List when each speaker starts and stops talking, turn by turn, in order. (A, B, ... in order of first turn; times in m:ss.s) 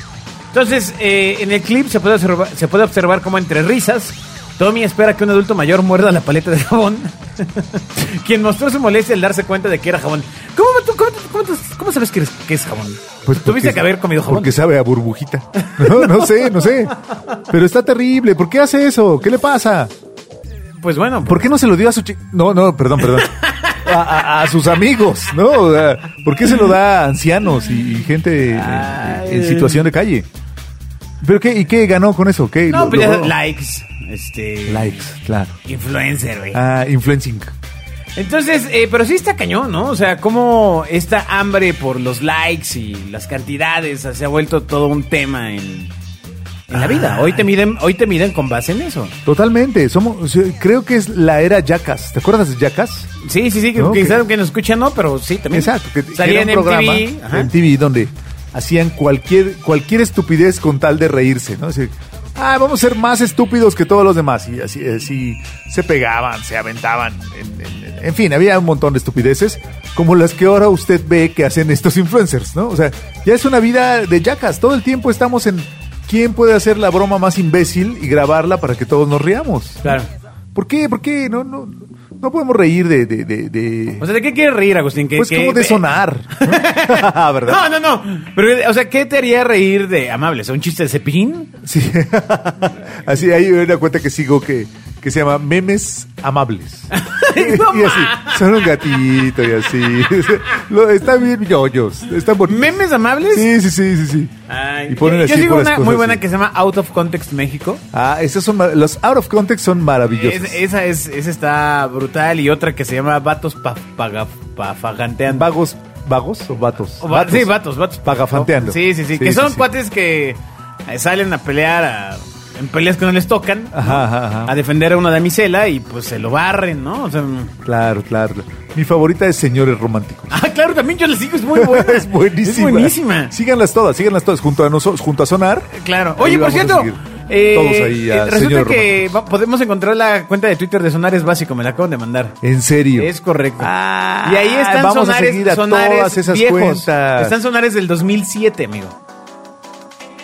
0:00.5-0:14.6 A
0:13.3-0:17.0 B
0:15.6-0:16.9 A
0:17.5-0:19.9 B
0:20.8-0:21.5 A
0:21.3-0:30.3 B
0:23.0-0:23.8 A
0:28.5-0:29.9 A
0:31.2-0:33.3 B
0:32.7-0:35.0 A
0:34.7-0:35.6 B
0:35.7-0:36.6 A
0:36.5-0:37.5 B
0:38.2-0:45.9 A
0:46.7-0:49.1 A
0:46.7-0:47.5 B
0:49.2-0:53.1 B
0:53.2-0:57.5 A
0:53.8-0:54.2 B
0:55.5-1:20.0 B
1:20.6-1:24.0 B
1:24.0-1:25.9 A
1:25.2-1:27.6 B
1:26.4-1:31.5 A
1:31.6-1:42.8 B
1:36.9-1:38.8 A
1:42.5-1:43.5 A
1:43.3-1:44.3 B
1:44.5-1:47.8 A
1:44.9-1:46.2 B
1:47.9-1:50.6 B
1:50.2-1:55.5 A
1:55.3-1:57.5 B
1:57.0-2:07.6 A
1:58.0-1:59.7 B
2:03.7-2:04.6 B
2:07.6-2:10.4 B
2:10.3-2:13.3 A
2:11.5-2:19.1 B
2:15.8-2:22.4 A
2:22.4-2:27.4 B
2:23.0-2:23.7 A
2:24.2-2:29.0 A